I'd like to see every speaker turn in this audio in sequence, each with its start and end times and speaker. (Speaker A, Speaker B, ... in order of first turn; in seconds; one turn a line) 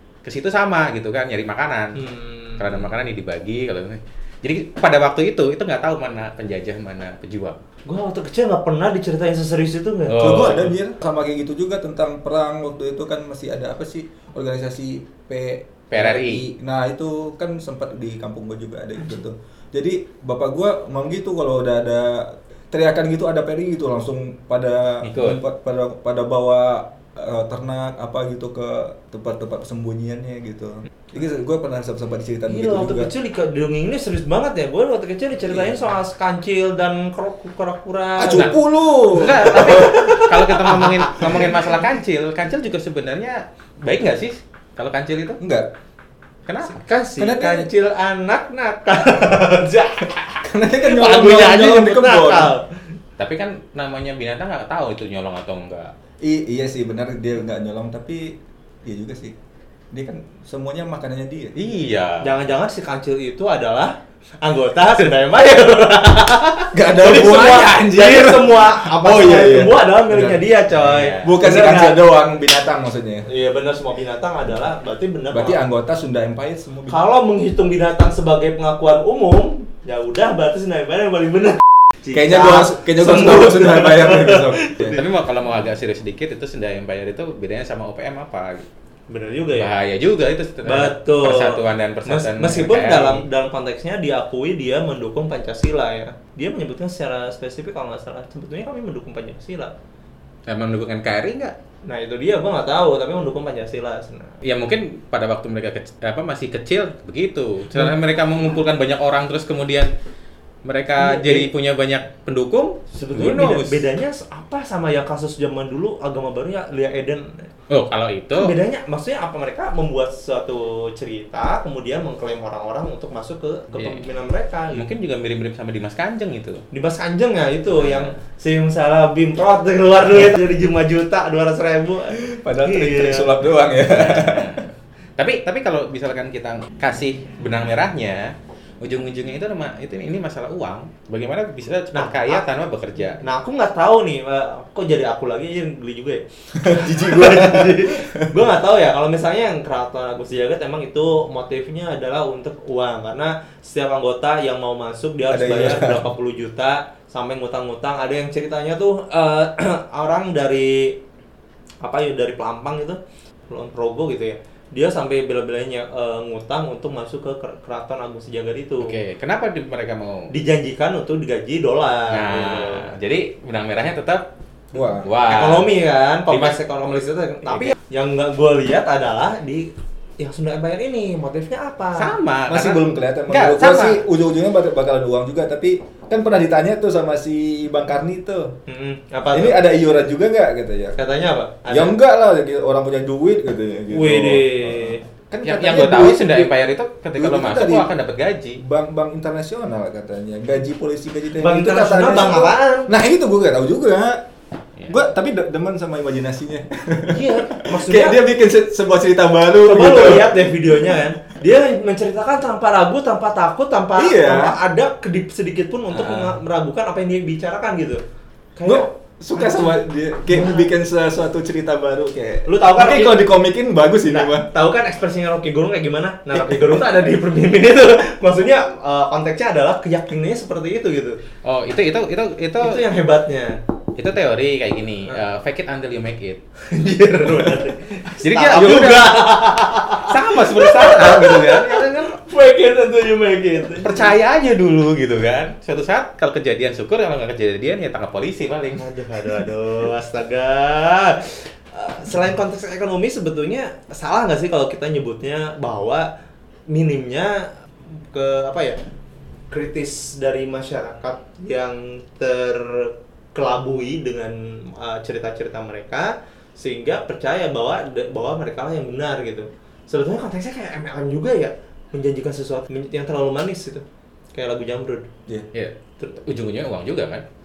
Speaker A: 0.2-2.0
Speaker B: 1.9-2.9
Speaker A: 2.6-7.6
Speaker B: 7.8-10.7
Speaker A: 10.1-10.7
Speaker C: 10.2-33.1
Speaker A: 15.9-16.4
Speaker A: 25.0-25.4
Speaker B: 32.5-38.6
Speaker C: 35.5-35.8
Speaker C: 38.2-40.1
Speaker A: 38.3-45.4
Speaker B: 39.2-41.6
Speaker C: 45.4-45.7
Speaker A: 46.5-46.8
Speaker B: 46.6-50.2
Speaker C: 47.2-47.7
Speaker C: 50.4-52.5
Speaker B: 50.7-52.7
Speaker A: 53.2-55.9
Speaker C: 56.2-59.3
Speaker C: 59.9-61.6
Speaker A: 61.5-62.3
Speaker B: 62.2-72.0
Speaker C: 66.7-70.4
Speaker A: 70.7-71.3
Speaker C: 71.2-73.2
Speaker B: 73.3-75.6
Speaker C: 75.3-77.0
Speaker B: 76.9-84.9
Speaker C: 82.1-85.0
Speaker A: 84.8-88.7
Speaker B: 89.1-89.7
Speaker A: 89.5-93.2
Speaker B: 90.6-99.7
Speaker A: 100.5-101.5
Speaker B: 101.8-104.4
Speaker A: 104.4-109.9
Speaker A: 110.6-113.8
Speaker B: 111.0-111.5
Speaker B: 112.9-117.5
Speaker A: 117.7-118.5
Speaker B: 118.3-124.8
Speaker A: 123.7-124.1
Speaker A: 124.7-126.7
Speaker B: 126.7-133.4
Speaker A: 127.8-128.1
Speaker C: 132.2-134.7
Speaker A: 133.8-143.2
Speaker B: 141.9-142.4
Speaker B: 143.2-161.0
Speaker C: 146.6-148.3
Speaker C: 155.3-156.0
Speaker B: 161.8-163.0
Speaker B: 163.5-168.9
Speaker A: 168.8-170.3
Speaker B: 170.3-172.9
Speaker A: 172.1-174.3
Speaker C: 174.7-175.1
Speaker A: 175.0-175.7
Speaker B: 175.3-182.2
Speaker A: 176.3-176.6
Speaker A: 177.5-177.7
Speaker A: 181.9-184.0
Speaker C: 182.5-188.5
Speaker B: 188.7-189.7
Speaker C: 189.3-190.9
Speaker B: 190.9-192.0
Speaker C: 191.7-196.5
Speaker B: 193.9-195.0
Speaker A: 195.4-198.6
Speaker C: 197.2-197.9
Speaker C: 198.6-204.2
Speaker B: 201.4-202.9
Speaker C: 204.9-211.0
Speaker B: 207.1-208.2
Speaker B: 209.6-218.0
Speaker C: 214.0-214.6
Speaker B: 218.6-219.7
Speaker C: 218.6-224.5
Speaker B: 222.4-223.2
Speaker B: 224.1-231.2
Speaker C: 226.4-226.7
Speaker A: 231.4-232.8
Speaker B: 232.6-233.6
Speaker A: 233.9-236.4
Speaker B: 236.7-244.1
Speaker A: 238.2-239.3
Speaker A: 240.0-242.2
Speaker A: 243.8-248.8
Speaker B: 248.8-256.1
Speaker B: 256.7-258.8
Speaker B: 259.5-275.1
Speaker A: 275.5-277.2